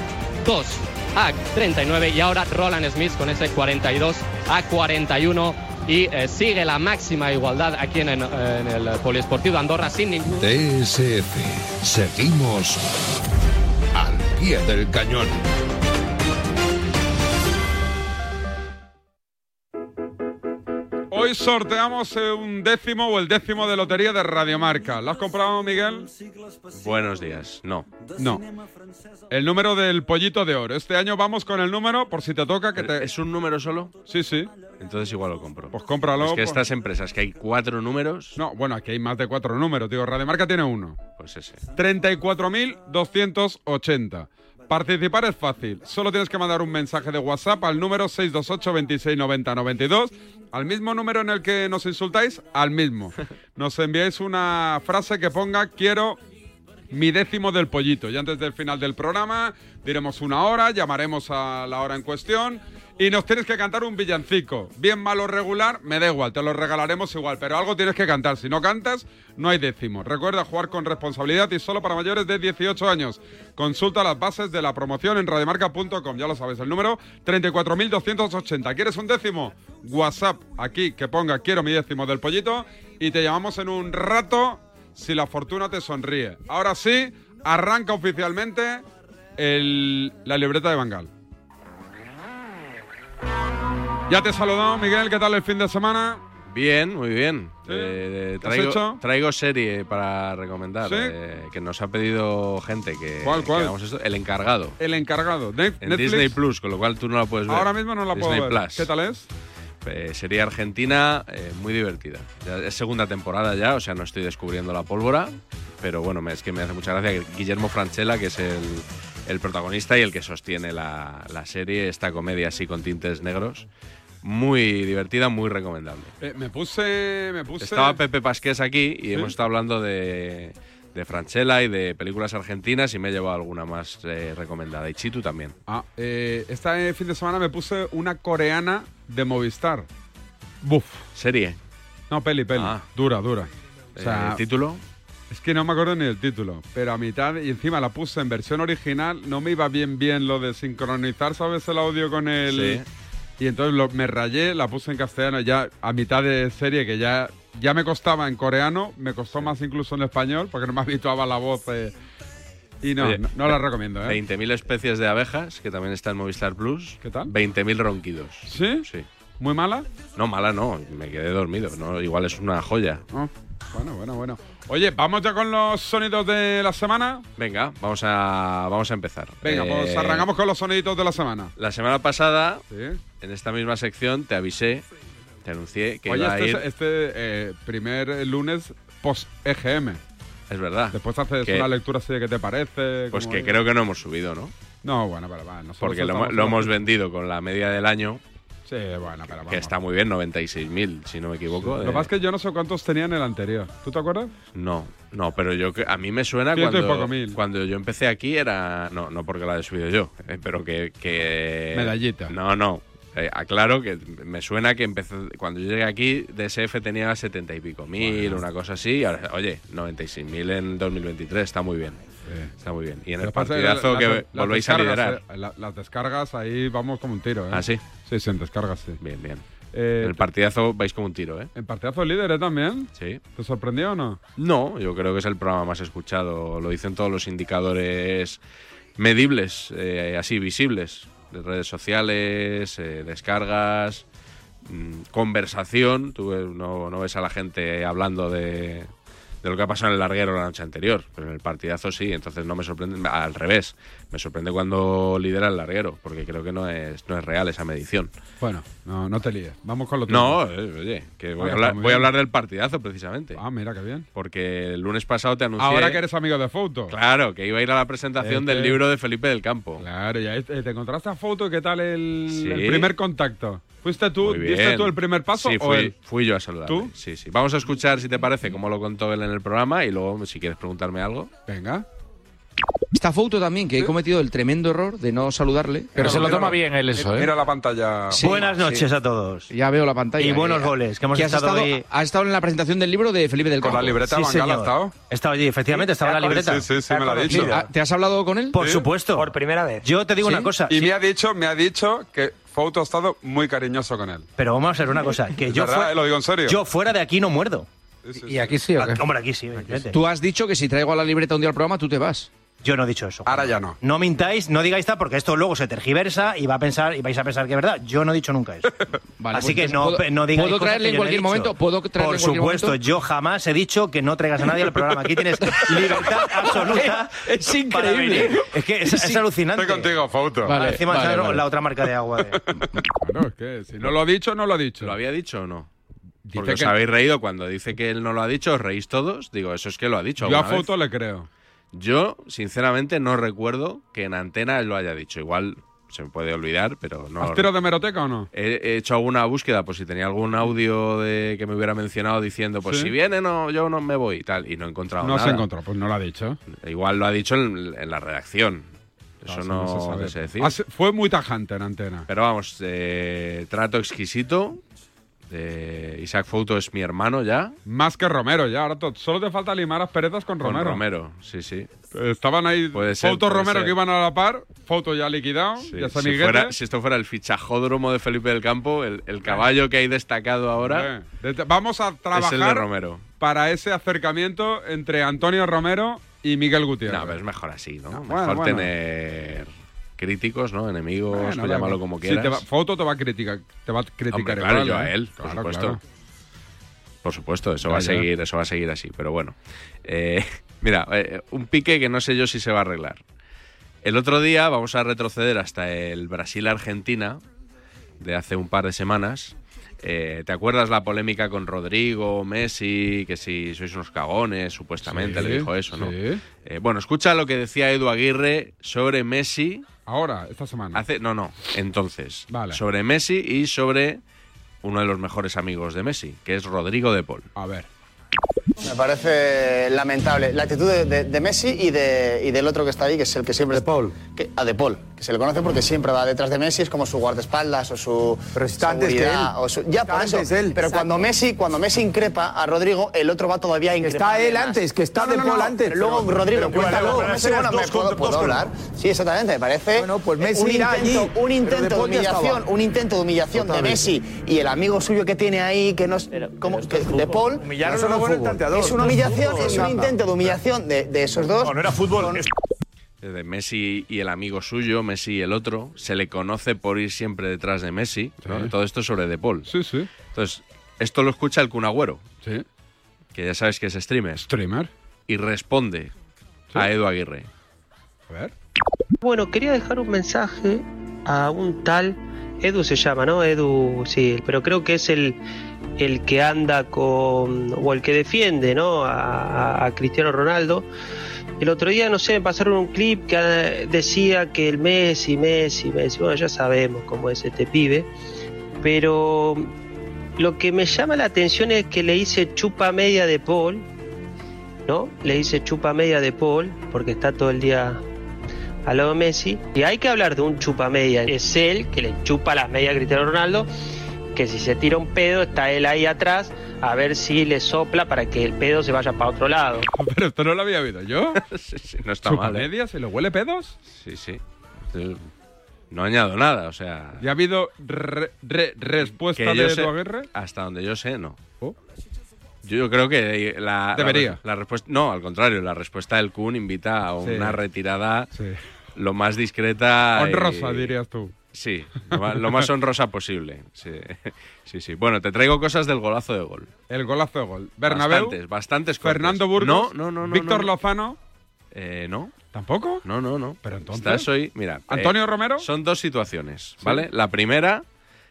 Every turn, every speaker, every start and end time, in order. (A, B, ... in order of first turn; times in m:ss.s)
0:00.4-0:10.4 A
0:10.4-0:12.8 B
0:13.9-0:15.4 B
0:21.1-0:26.1 C
0:26.8-0:28.1 D
0:28.2-0:28.4 C
0:29.3-0:33.0 C
0:32.8-0:33.9 D
0:34.1-0:34.5 C
0:34.8-0:38.4 D
0:35.7-0:36.6 C
0:38.4-0:41.0 C
0:41.2-0:41.6 D
0:41.8-0:56.2 C
0:56.9-1:28.8 C
1:29.4-1:31.1 C
1:34.1-1:36.2 C
1:36.5-1:44.8 D
1:37.7-1:39.0 C
1:40.8-1:41.1 C
1:43.2-1:43.7 C
1:44.8-1:46.4 C
1:45.8-1:48.9 D
1:47.5-1:49.3 C
1:49.8-2:03.6 D
2:04.2-2:06.1 D
2:06.2-2:08.0 C
2:07.6-2:15.5 D
2:15.7-2:19.9 C
2:20.6-2:21.0 C
2:21.1-2:21.6 D
2:22.1-2:24.4 C
2:22.6-2:22.8 D
2:23.9-2:24.8 D
2:25.3-2:32.8 C
2:32.5-2:32.8 D
2:33.4-2:41.9 C
2:42.8-2:44.2 C
2:43.0-2:49.1 D
2:47.0-2:47.3 C
2:48.5-2:48.9 C
2:49.4-2:49.9 C
2:50.1-2:53.0 D
2:53.1-2:57.2 C
2:57.4-3:00.3 D
2:59.4-3:01.5 C
3:01.6-3:02.6 D
3:02.7-3:03.0 C
3:03.2-3:04.8 D
3:05.4-3:06.6 D
3:06.1-3:10.0 C
3:10.5-3:11.7 D
3:10.9-3:13.6 C
3:13.1-3:14.5 D
3:14.8-3:16.8 C
3:15.8-3:18.2 D
3:18.7-3:19.7 C
3:19.2-3:22.1 D
3:21.6-3:24.3 C
3:24.5-3:42.0 D
3:26.5-3:27.4 C
3:31.7-3:32.3 C
3:38.0-3:38.4 C
3:42.3-3:42.5 C
3:42.6-3:45.2 D
3:43.2-3:49.0 C
3:47.5-3:47.8 D
3:49.0-3:49.4 D
3:49.7-3:50.2 C
3:50.0-3:51.5 D
3:51.6-3:54.2 C
3:53.0-3:53.2 D
3:54.4-3:58.4 D
3:59.0-4:04.0 D
4:04.6-4:08.9 D
4:09.4-4:18.1 D
4:18.4-4:20.4 C
4:20.1-4:23.4 D
4:21.4-4:22.1 C
4:23.4-4:24.0 C
4:24.1-4:26.0 D
4:25.6-4:26.9 C
4:26.9-4:29.8 D
4:28.2-4:28.8 C
4:29.8-4:35.9 C
4:32.3-4:32.9 D
4:34.2-4:41.3 D
4:36.6-4:36.9 C
4:41.5-4:41.8 C
4:42.9-4:47.3 E
4:46.0-4:48.4 C
4:48.1-4:49.5 F
4:48.3-4:48.6 E
4:49.5-4:54.0 E
4:50.2-4:51.8 F
4:53.6-4:54.9 C
4:54.0-4:56.7 F
4:56.4-4:57.5 C
4:57.4-4:58.6 E
4:58.5-5:00.9 F
5:00.7-5:04.3 C
5:04.4-5:07.7 F
5:05.5-5:06.6 C
5:08.0-5:08.5 C
5:08.3-5:08.9 E
5:08.8-5:10.0 F
5:09.9-5:12.3 E
5:12.6-5:18.7 F
5:13.2-5:13.8 C
5:19.2-5:22.8 E
5:19.3-5:32.4 F
5:27.4-5:28.1 E
5:29.7-5:30.5 C
5:30.5-5:31.4 E
5:32.9-5:34.9 C
5:34.8-5:35.7 D
5:36.2-5:36.8 C
5:36.4-5:40.7 D
5:40.2-5:41.3 C
5:41.7-5:47.5 D
5:47.2-5:48.3 C
5:48.3-5:55.5 D
5:52.6-5:52.9 C
5:55.0-5:56.4 C
5:56.5-5:58.7 D
5:59.2-6:00.6 D
5:59.2-6:02.0 C
6:02.1-6:04.6 D
6:05.3-6:07.6 D
6:07.6-6:10.8 C
6:10.4-6:11.7 D
6:11.9-6:16.5 C
6:12.7-6:13.8 D
6:15.6-6:20.9 D
6:20.6-6:22.7 C
6:22.1-6:23.0 D
6:23.2-6:27.2 C
6:26.9-6:32.4 D
6:27.9-6:28.7 C
6:31.1-6:35.8 C
6:34.1-6:35.8 D
6:37.0-6:43.0 D
6:37.6-6:38.1 C
6:43.8-6:47.2 D
6:48.0-6:59.6 D
6:54.9-6:56.2 C
6:59.9-7:00.8 C
7:00.7-7:04.0 D
7:02.3-7:02.6 C
7:04.6-7:07.3 D
7:07.4-7:07.7 C
7:08.6-7:37.9 G
7:25.5-7:28.5 H
7:37.4-7:39.7 H
7:38.5-7:42.2 G
7:41.4-7:42.3 H
7:43.0-7:49.5 D
7:48.2-7:48.5 C
7:49.5-7:49.9 C
7:50.1-7:52.0 D
7:53.1-7:54.3 D
7:54.2-7:54.7 C
7:55.1-7:55.9 D
7:56.5-7:57.3 D
7:59.0-8:05.2 I
8:05.8-8:10.7 I
8:11.4-8:17.9 I
8:18.6-8:19.5 I
8:20.2-8:23.7 I
8:24.7-8:27.8 I
8:28.6-8:33.5 I
8:34.1-8:39.7 I
8:39.8-8:41.2 C
8:41.2-8:42.5 D
8:42.0-8:43.6 C
8:43.7-8:45.1 D
8:45.7-8:47.1 D
8:47.0-8:50.1 C
8:49.2-8:51.2 D
8:52.4-8:58.1 D
8:53.8-8:54.2 C
8:57.0-8:57.4 C
8:58.2-8:58.4 C
8:58.8-9:00.7 D
9:00.0-9:01.2 C
9:01.3-9:06.5 D
9:01.9-9:02.4 C
9:06.7-9:08.2 C
9:07.7-9:10.5 D
9:08.8-9:11.0 C
9:11.5-9:12.2 D
9:12.3-9:12.8 C
9:12.8-9:17.6 D
9:13.4-9:14.1 C
9:14.7-9:15.5 C
9:16.6-9:16.8 C